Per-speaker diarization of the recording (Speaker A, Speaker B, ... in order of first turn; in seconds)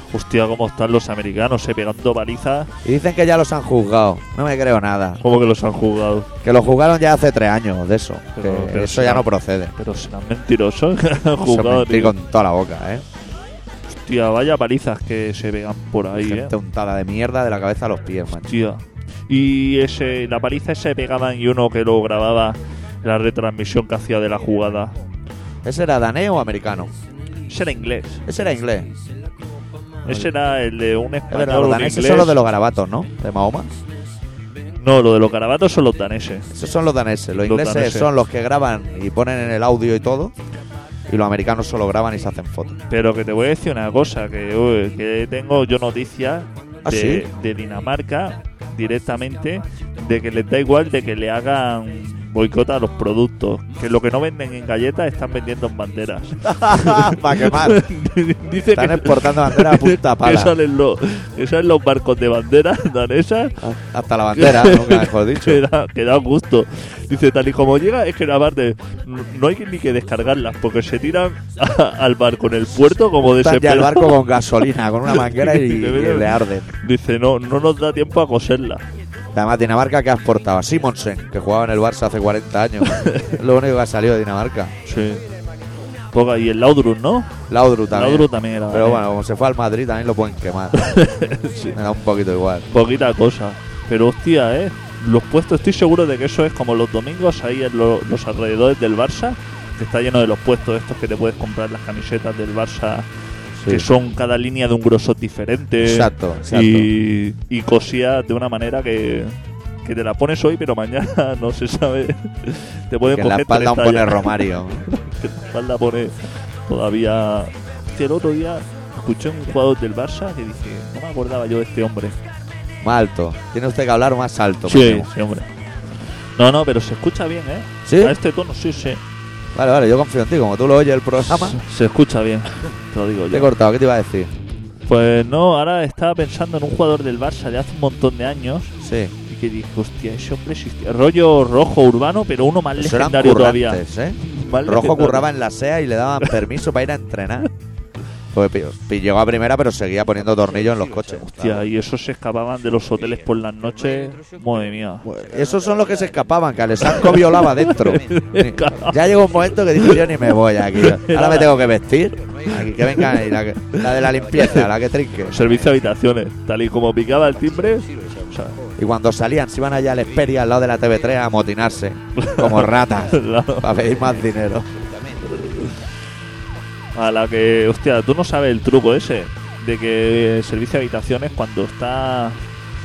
Speaker A: 0.1-2.7, 5.2-6.3, 8.3-12.1, 13.9-16.5, 18.4-24.9, 27.5-28.2, 30.0-32.4, 34.8-36.5, 37.4-38.1, 42.9-63.6, 64.3-74.2, 75.1-78.8, 82.9-83.4, 84.8-85.2, 86.1-87.3, 87.9-89.0, 90.8-91.8, 92.7-103.1, 103.7-122.2, 124.7-125.5, 126.3-129.0, 131.3-133.5, 134.8-138.7, 139.2-145.3, 151.2-155.1, 156.8-161.5, 162.5-164.7, 165.2-168.6, 172.2-174.1, 175.4-175.7, 176.9-182.4
Speaker B: 2.8-5.2, 6.4-9.7, 11.4-13.0, 16.1-18.5, 25.6-26.9, 28.2-28.9, 30.1-30.3, 31.3-33.7, 36.5-40.3, 41.1-42.8, 46.8-47.2, 56.4-57.8, 58.7-60.5, 63.6-65.6, 73.2-76.7, 79.3-84.7, 87.5-90.9, 91.7-92.7, 103.5-103.9, 105.8-106.9, 113.0-114.8, 122.8-125.1, 127.8-128.2, 129.5-131.6, 133.3-134.3, 138.8-139.1, 142.8-147.5, 148.3-151.7, 155.0-165.5, 168.8-174.7